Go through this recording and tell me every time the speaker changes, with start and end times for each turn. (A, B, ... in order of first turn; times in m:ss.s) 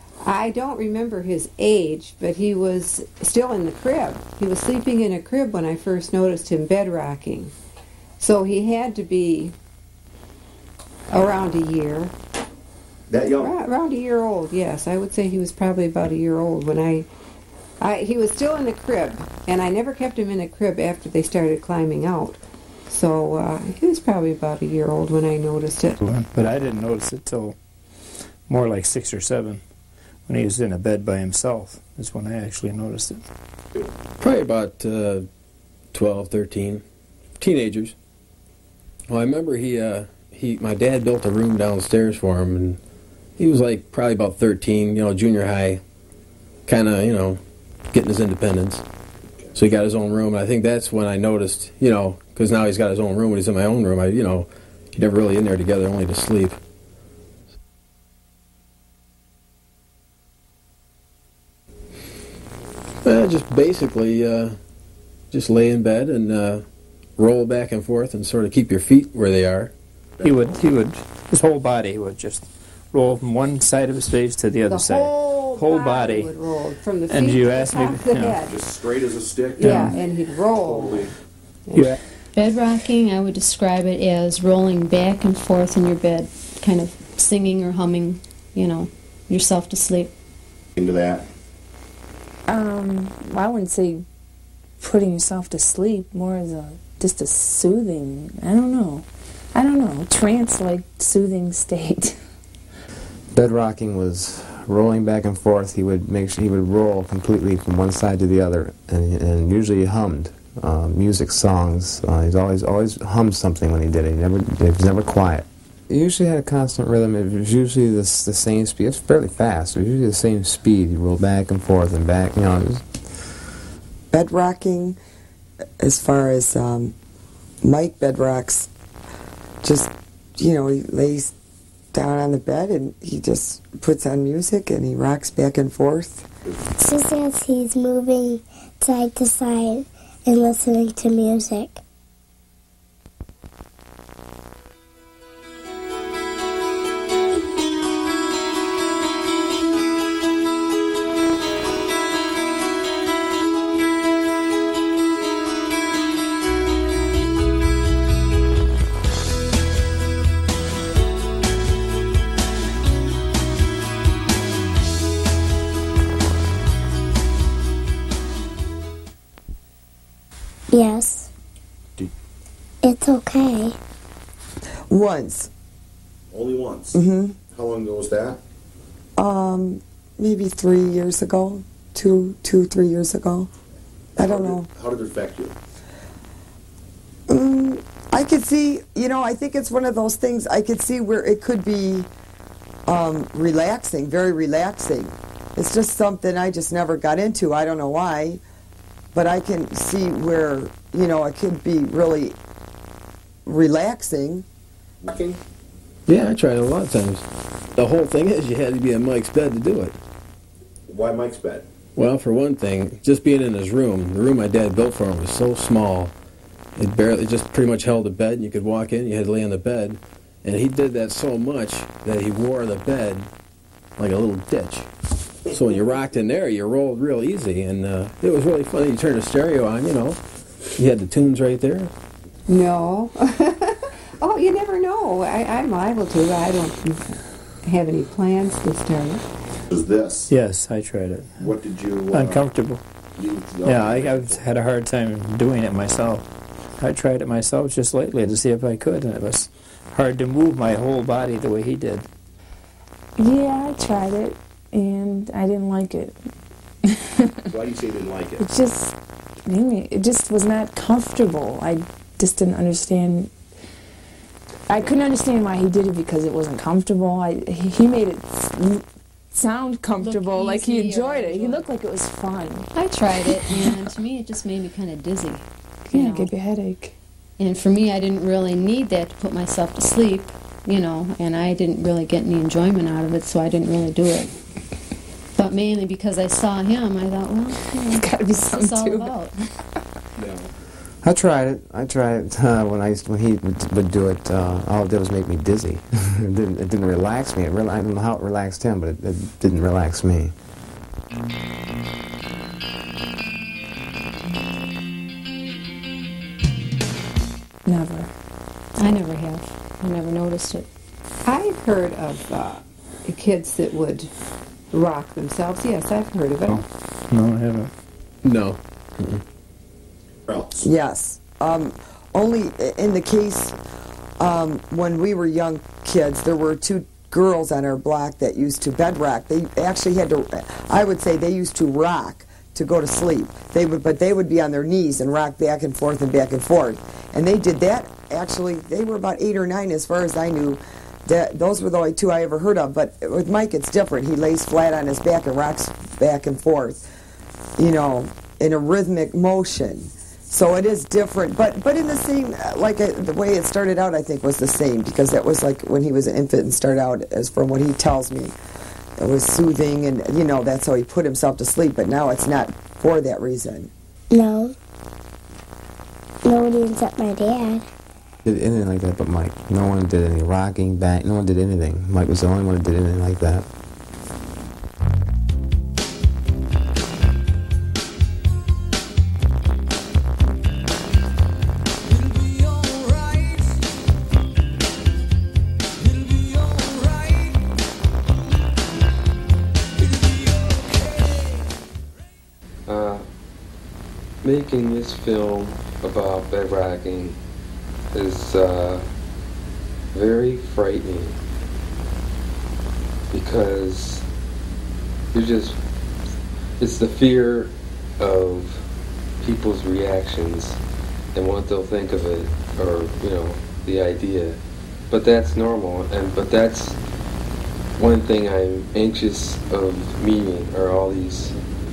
0:00.2-0:07.5 A
0:08.2-0:09.5 A
0:11.1-0:12.1 A
0:13.1-0:13.5 B
0:13.3-0:17.1 A
0:17.8-0:26.0 A
0:26.0-0:27.6 C
0:28.5-0:29.6 C
0:30.3-0:33.2 C
0:34.2-0:35.3 D
0:35.9-0:36.8 D
0:37.4-0:37.9 D
0:39.1-0:42.8 D
0:43.4-0:45.8 D
0:46.7-0:47.4 D
0:47.9-0:48.8 D
0:49.6-0:56.6 D
1:03.0-1:04.6 D
1:05.3-1:06.6 D
1:07.2-1:09.7 D
1:10.2-1:10.6 B
1:10.2-1:16.3 C
1:14.7-1:18.5 A
1:17.1-1:18.4 C
1:18.5-1:19.9 B
1:19.6-1:21.1 A
1:19.6-1:20.0 C
1:20.6-1:21.1 B
1:22.3-1:30.1 E
1:30.8-1:31.2 B
1:32.5-1:34.0 F
1:34.8-1:42.2 F
1:43.3-2:03.1 G
2:04.1-2:05.0 H
2:05.8-2:06.9 H
2:07.6-2:08.7 H
2:09.6-2:11.3 H
2:11.9-2:16.3 H
2:16.8-2:21.8 I
2:50.7-2:51.3 I
2:52.8-2:53.8 I
2:54.9-2:55.5 H
2:56.3-2:57.0 B
2:56.9-2:57.4 H
2:57.5-2:58.4 B
2:59.2-3:03.5 H
3:04.2-3:05.5 B
3:04.2-3:04.7 H
3:07.3-3:12.1 H
3:12.9-3:18.4 H
3:19.1-3:22.4 H
3:23.4-3:24.4 H
3:25.0-3:25.4 B
3:26.1-3:30.0 D
3:30.9-3:31.6 B
3:32.0-3:36.1 D
3:36.8-3:43.3 D
3:44.0-3:44.9 D
3:45.5-3:50.2 D
3:50.8-3:51.9 D
3:52.5-3:59.2 A
3:59.7-4:00.3 B
4:00.3-4:01.5 C
4:01.4-4:02.4 B
4:02.1-4:02.8 C
4:03.2-4:04.4 B
4:03.6-4:06.2 C
4:06.8-4:12.1 C
4:13.2-4:16.2 F
4:16.9-4:17.3 F
4:17.5-4:18.4 B
4:18.4-4:23.3 F
4:24.7-4:32.7 F
4:30.0-4:31.7 E
4:32.7-4:36.3 E
4:33.2-4:33.8 F
4:35.9-4:36.9 F
4:37.4-4:44.3 E
4:45.4-4:49.4 E
4:47.7-4:49.1 F
4:50.2-4:50.5 B
4:51.0-5:00.3 G
5:07.6-5:08.1 F
5:08.8-5:10.7 E
5:11.2-5:14.1 A
5:14.7-5:16.6 A
5:16.5-5:17.7 C
5:18.2-5:19.2 D
5:20.3-5:20.6 B
5:20.6-5:23.6 H
5:24.2-5:46.9 H
5:47.6-5:58.3 H
5:59.0-6:03.7 H
6:04.1-6:04.5 I
6:06.2-6:07.6 I
6:08.2-6:13.5 G
6:21.8-6:23.7 J
6:25.8-6:27.5 J
6:29.8-6:31.6 J
6:32.7-6:33.0 K
6:34.2-6:37.2 K
6:37.9-6:38.8 K
6:39.9-6:41.1 K
6:43.1-6:44.0 K
6:45.1-6:45.6 K
6:46.6-6:48.6 K
6:49.2-6:50.6 K
6:51.1-6:54.4 K
6:54.9-6:56.8 K
6:57.8-7:01.4 K